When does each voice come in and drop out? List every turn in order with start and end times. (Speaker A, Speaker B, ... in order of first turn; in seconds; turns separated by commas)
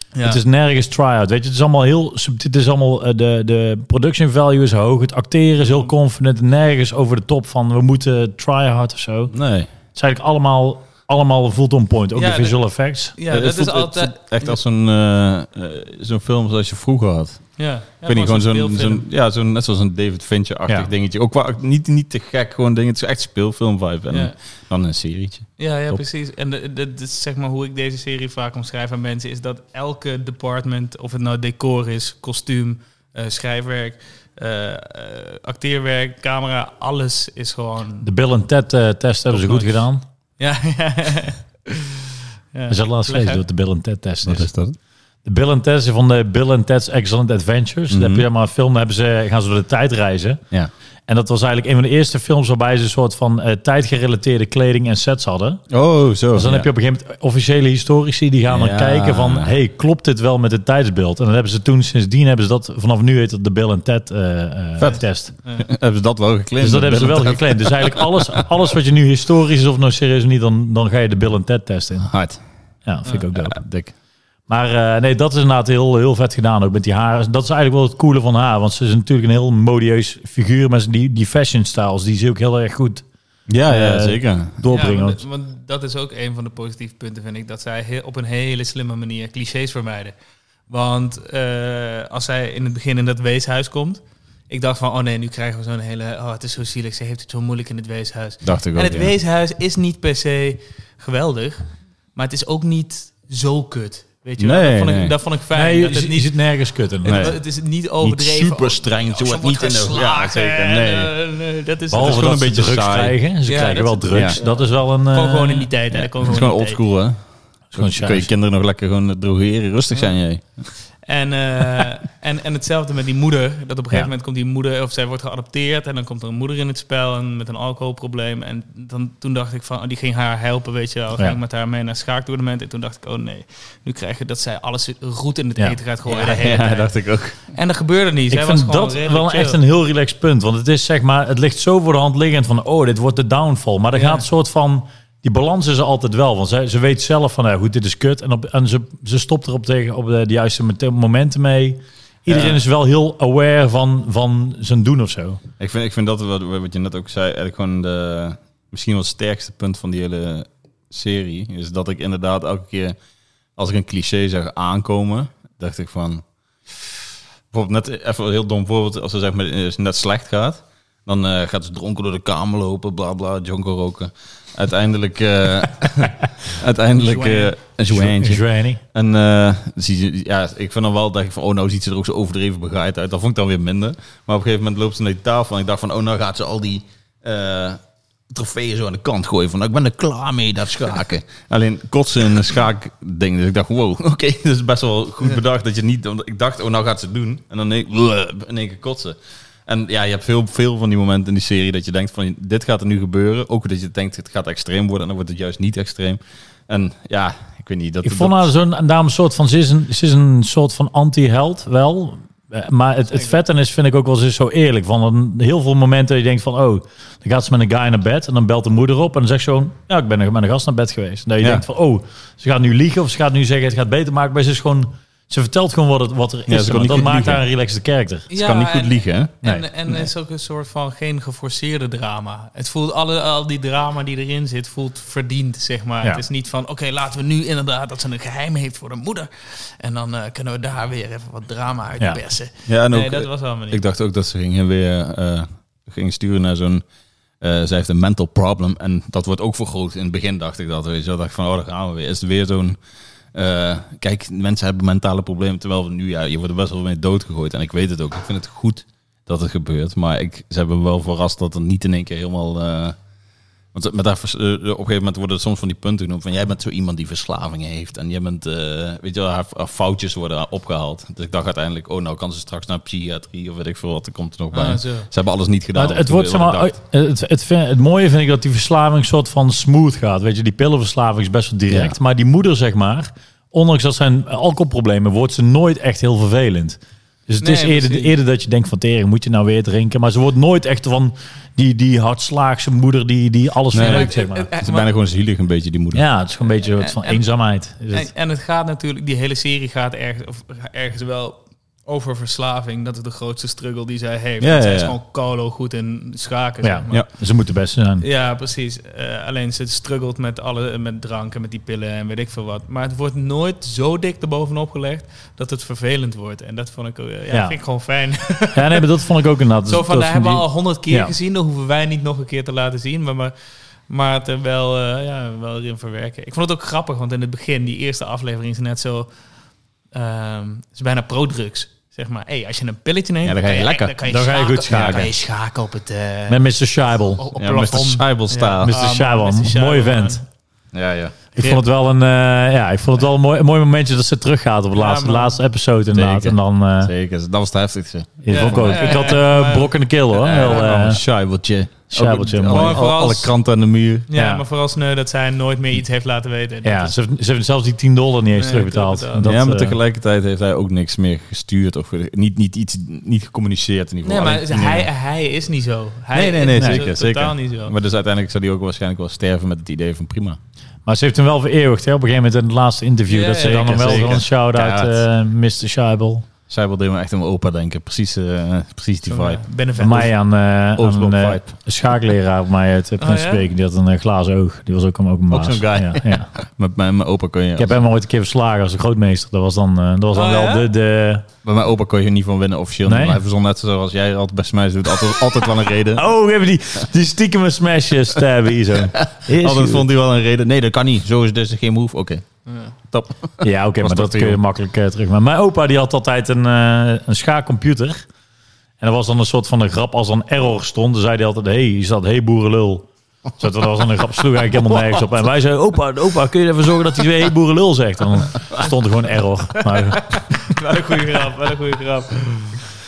Speaker A: 0.1-0.4, Speaker B: 0.2-9.3, Speaker C: 9.3-9.7, Speaker B: 9.9-13.1, Speaker A: 12.1-12.6, Speaker A: 13.1-14.6, Speaker C: 13.3-17.4, Speaker A: 17.6-19.0, Speaker C: 18.1-26.0, Speaker A: 25.6-38.0, Speaker B: 38.0-40.0, Speaker A: 39.3-39.8, Speaker A: 40.4-43.4, Speaker B: 42.7-44.5, Speaker C: 44.2-44.8, Speaker B: 45.2-50.4, Speaker C: 47.9-48.2, Speaker B: 51.1-55.6, Speaker C: 55.7-56.7, Speaker B: 56.3-65.3, Speaker C: 58.5-59.5, Speaker C: 65.5-68.4, Speaker B: 66.6-72.1, Speaker C: 72.0-72.4, Speaker B: 72.8-73.6, Speaker C: 73.3-73.9, Speaker B: 74.5-83.0, Speaker C: 83.5-84.6, Speaker B: 83.7-85.2, Speaker A: 84.7-90.1, Speaker A: 90.7-106.3, Speaker C: 98.4-99.1, Speaker C: 104.4-105.1, Speaker B: 105.5-107.3, Speaker A: 107.0-112.4, Speaker C: 107.0-107.4, Speaker C: 108.0-111.1, Speaker B: 111.9-115.7, Speaker C: 112.0-113.2, Speaker A: 113.5-116.8, Speaker C: 114.1-114.4, Speaker C: 115.9-117.2, Speaker B: 117.7-118.3, Speaker C: 117.7-120.7, Speaker A: 121.0-139.6, Speaker C: 136.1-137.4, Speaker B: 138.3-155.4, Speaker A: 143.9-144.2, Speaker C: 152.3-152.6, Speaker C: 155.6-162.9, Speaker C: 163.6-166.2, Speaker C: 167.5-208.5, Speaker A: 177.0-177.5, Speaker B: 177.9-178.8, Speaker B: 208.0-228.3, Speaker C: 226.5-227.4, Speaker A: 228.3-243.8, Speaker C: 228.3-229.3, Speaker C: 242.7-246.8, Speaker C: 247.4-252.8, Speaker C: 253.3-263.0, Speaker C: 263.7-276.7, Speaker A: 274.5-275.1, Speaker B: 275.7-294.5, Speaker C: 281.7-281.9, Speaker A: 287.4-288.1, Speaker C: 293.7-296.0, Speaker A: 293.8-294.9, Speaker B: 295.9-298.1, Speaker A: 296.7-297.2, Speaker A: 297.9-307.0, Speaker C: 304.4-304.9, Speaker B: 306.6-308.1, Speaker A: 308.0-318.9, Speaker B: 317.3-317.6, Speaker B: 318.5-321.1, Speaker A: 319.6-323.3, Speaker A: 323.9-329.1, Speaker A: 329.9-336.4, Speaker C: 333.2-333.9, Speaker B: 334.0-335.1, Speaker C: 334.7-335.1, Speaker B: 336.3-337.2, Speaker A: 337.1-340.2, Speaker C: 337.4-338.7, Speaker B: 338.6-340.2, Speaker C: 340.7-341.1, Speaker B: 341.4-346.9, Speaker A: 341.4-341.6, Speaker A: 344.7-345.4, Speaker C: 345.9-349.1, Speaker B: 348.2-351.0, Speaker A: 348.3-349.7, Speaker C: 350.1-354.1, Speaker A: 350.3-350.6, Speaker B: 351.9-352.8, Speaker A: 352.5-353.3, Speaker A: 354.1-356.9, Speaker B: 354.1-354.4, Speaker B: 356.6-359.8, Speaker A: 358.3-359.3, Speaker C: 359.2-364.9, Speaker A: 364.0-367.7, Speaker C: 366.1-370.4, Speaker B: 366.6-366.9, Speaker B: 370.9-376.2, Speaker A: 373.1-374.2, Speaker C: 373.5-375.0, Speaker C: 376.5-379.4, Speaker A: 379.1-380.1, Speaker B: 379.8-386.3, Speaker C: 380.8-381.5, Speaker A: 383.0-383.4, Speaker C: 385.3-387.8, Speaker B: 387.6-391.2, Speaker A: 390.1-390.7, Speaker C: 391.4-396.1, Speaker B: 392.9-393.2, Speaker B: 395.9-399.9, Speaker C: 398.9-402.2, Speaker A: 402.4-402.7, Speaker C: 402.9-404.4, Speaker B: 403.4-408.0, Speaker B: 408.8-420.5, Speaker A: 419.8-422.6